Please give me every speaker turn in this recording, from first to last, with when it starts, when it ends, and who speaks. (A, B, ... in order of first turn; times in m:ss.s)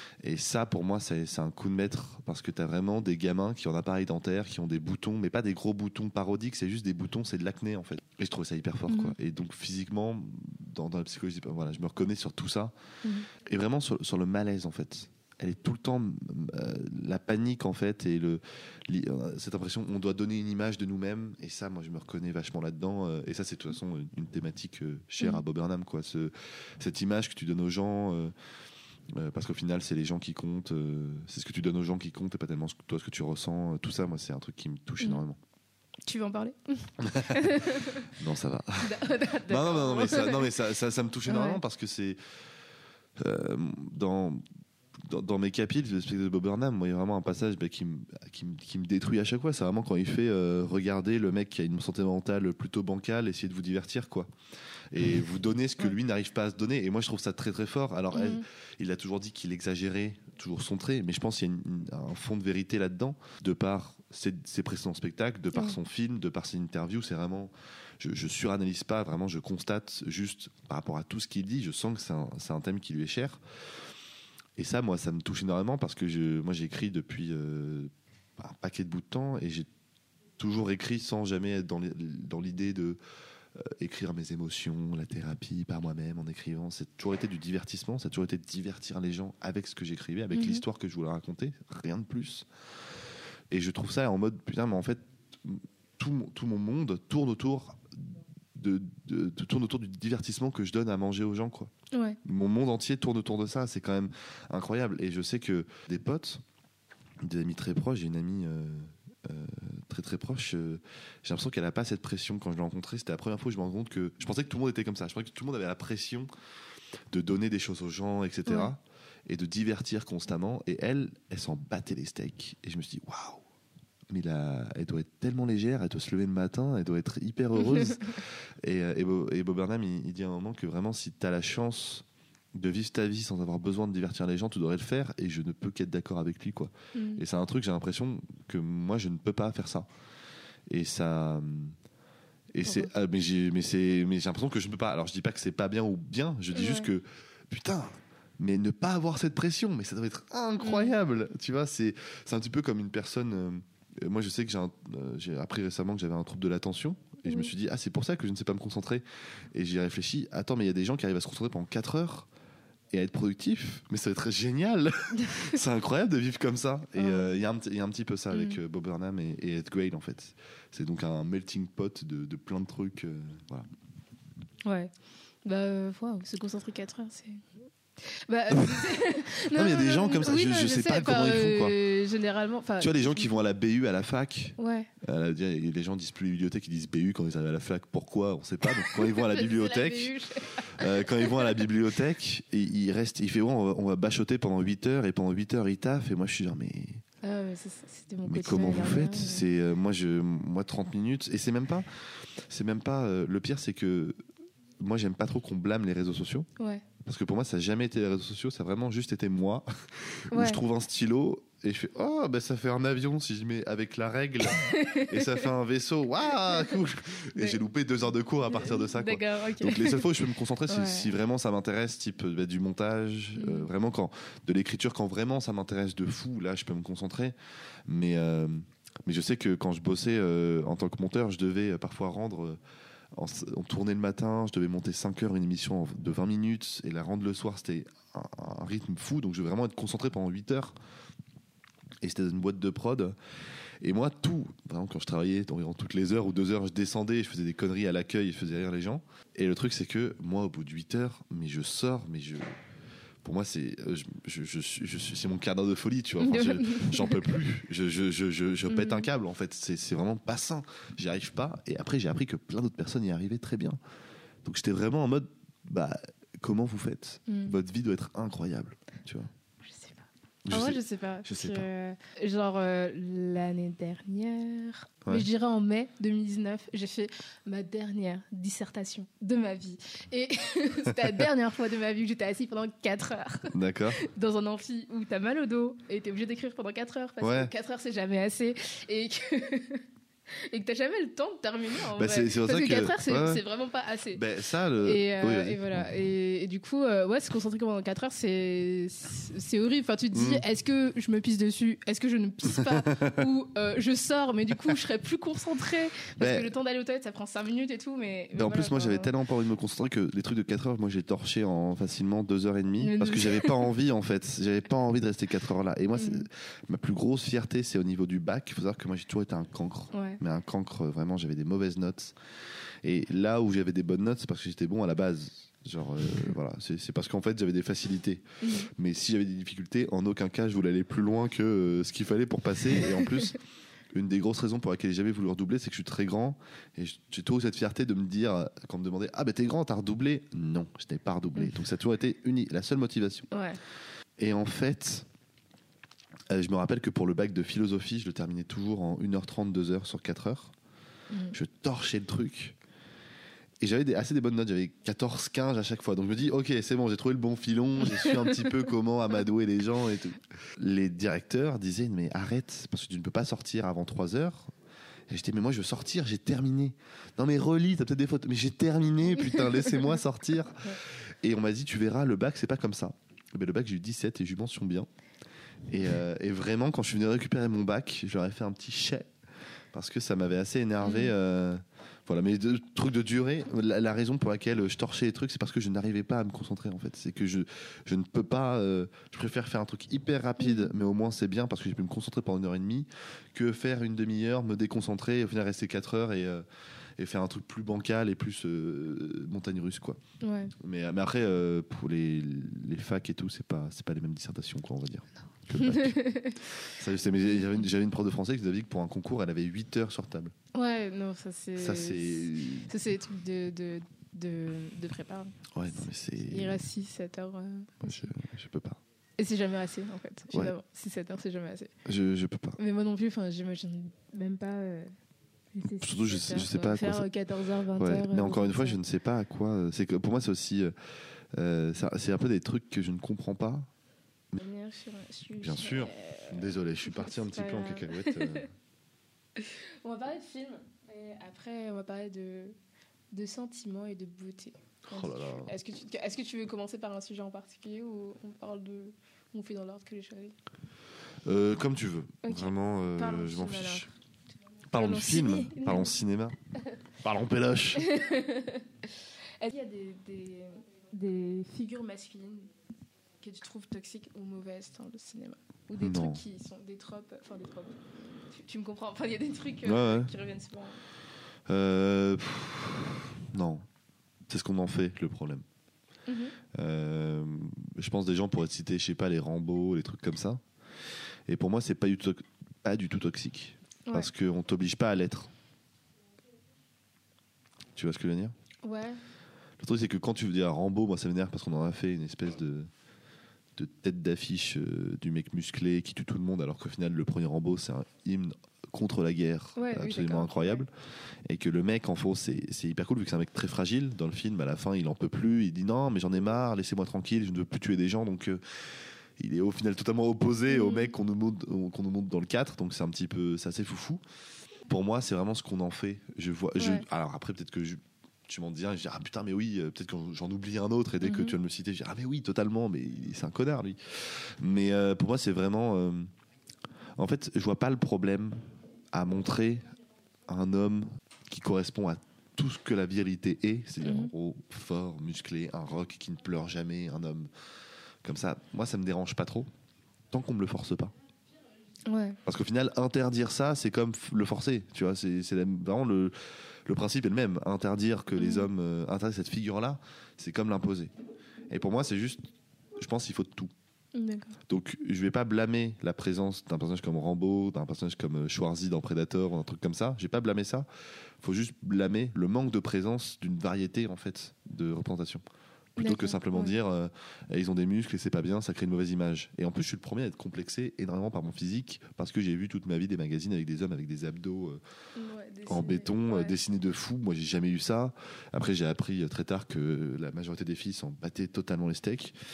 0:00.2-0:12.7 A
0:08.9-0:09.1 B
0:13.0-0:13.3 B
0:13.4-0:28.3 A
0:29.1-0:35.4 A
0:36.0-0:38.1 B
0:37.0-0:37.5 A
0:38.1-0:38.9 A
0:38.8-0:40.5 B
0:39.5-0:42.2 A
0:41.3-0:41.6 B
0:43.2-0:44.4 A
0:45.0-0:54.3 A
0:54.9-1:13.4 A
0:58.1-0:58.4 B
1:05.5-1:05.8 B
1:14.6-1:19.7 A
1:20.4-1:23.0 A
1:23.6-1:32.4 A
1:30.3-1:30.6 B
1:33.5-1:41.7 A
1:41.9-1:42.2 B
1:42.2-1:46.4 A
1:47.2-1:56.3 A
1:57.1-2:03.4 A
1:58.4-1:58.7 B
2:04.1-2:19.9 A
2:07.5-2:08.1 B
2:16.9-2:17.2 B
2:20.7-2:21.8 A
2:22.5-2:42.3 A
2:22.6-2:22.9 B
2:26.5-2:26.9 B
2:30.6-2:31.0 B
2:37.2-2:37.5 B
2:42.9-2:53.7 A
2:47.0-2:47.3 B
2:48.3-2:48.6 B
2:54.6-2:54.9 B
2:55.4-2:57.4 B
2:58.0-3:03.4 B
2:58.5-2:59.0 A
2:59.5-3:01.8 A
3:02.8-3:10.1 A
3:04.6-3:04.9 B
3:08.6-3:11.7 B
3:10.7-3:17.0 A
3:17.2-3:19.5 B
3:18.2-3:21.8 A
3:22.5-3:24.2 A
3:24.8-3:26.5 A
3:26.6-3:26.8 B
3:27.0-3:47.4 A
3:30.3-3:30.6 B
3:34.5-3:35.5 B
3:36.3-3:36.8 B
3:37.3-3:37.6 B
3:38.5-3:41.1 B
3:43.4-3:43.7 B
3:47.9-3:52.6 A
3:53.1-4:00.8 A
4:02.0-4:03.2 A
4:03.8-4:12.6 A
4:13.2-4:23.8 A
4:16.2-4:17.2 B
4:18.7-4:19.1 B
4:24.4-4:29.3 A
4:27.3-4:27.6 B
4:29.6-4:54.2 B
4:30.4-4:31.6 A
4:43.5-4:44.0 A
4:47.2-4:47.5 A
4:51.9-4:53.4 A
4:54.1-4:55.8 A
4:54.8-5:09.1 B
5:00.1-5:00.4 A
5:02.6-5:03.2 A
5:06.2-5:06.5 A
5:08.3-5:22.1 A
5:12.8-5:13.7 B
5:15.9-5:16.3 B
5:19.9-5:20.2 B
5:22.8-5:28.2 A
5:28.4-5:28.7 B
5:28.8-5:33.4 A
5:32.8-5:33.3 B
5:33.9-5:43.3 A
5:43.3-5:43.6 B
5:44.2-5:45.0 A
5:46.3-5:50.5 A
5:51.1-5:51.4 B
5:51.3-5:52.6 A
5:53.6-6:04.5 A
5:57.9-5:58.6 B
6:05.1-6:14.9 A
6:09.2-6:09.9 B
6:15.7-6:19.1 A
6:19.7-6:36.4 A
6:20.8-6:21.1 B
6:30.4-6:30.8 B
6:37.0-6:40.0 A
6:40.2-6:40.5 B
6:40.6-6:50.3 A
6:45.6-6:46.5 B
6:47.2-6:47.6 B
6:50.5-6:55.4 B
6:51.6-6:52.7 A
6:55.5-6:56.6 A
6:56.3-6:58.1 B
6:57.8-6:58.8 A
6:59.2-7:01.7 B
7:01.8-7:02.6 A
7:02.6-7:04.9 B
7:05.5-7:08.8 B
7:05.8-7:07.0 A
7:07.8-7:10.7 A
7:11.3-7:13.7 A
7:14.4-7:18.4 B
7:15.4-7:18.5 A
7:19.4-7:22.5 B
7:23.1-7:30.4 B
7:24.9-7:25.5 A
7:31.2-7:33.9 A
7:32.2-7:33.9 B
7:34.7-7:36.4 A
7:34.7-7:35.9 B
7:37.0-7:37.8 A
7:37.7-7:42.5 B
7:43.2-7:50.8 B
7:45.8-7:46.2 A
7:49.6-7:50.1 A
7:51.5-7:53.6 A
7:54.3-7:55.4 A
7:56.1-7:56.4 B
7:56.5-8:00.4 A
8:01.3-8:05.3 A
8:07.8-8:08.3 A
8:08.6-8:09.0 B
8:09.6-8:12.7 A
8:13.6-8:20.7 A
8:19.6-8:20.6 B
8:21.2-8:28.6 A
8:29.2-8:34.0 A
8:30.5-8:30.9 B
8:34.7-8:46.1 A
8:36.6-8:36.8 B
8:41.0-8:41.4 B
8:47.0-8:48.4 A
8:48.9-8:49.7 A
8:50.3-8:57.3 A
8:53.8-8:54.1 B
8:58.0-8:59.5 A
9:00.1-9:00.9 A
9:01.8-9:02.2 B
9:02.2-9:06.1 A
9:06.6-9:10.9 A
9:08.2-9:08.5 B
9:11.5-9:12.2 A
9:12.8-9:13.5 A
9:13.9-9:14.4 B
9:14.5-9:20.6 A
9:21.2-9:25.2 A
9:25.8-9:34.6 A
9:25.8-9:26.5 B
9:34.9-9:36.3 B
9:35.5-9:42.1 A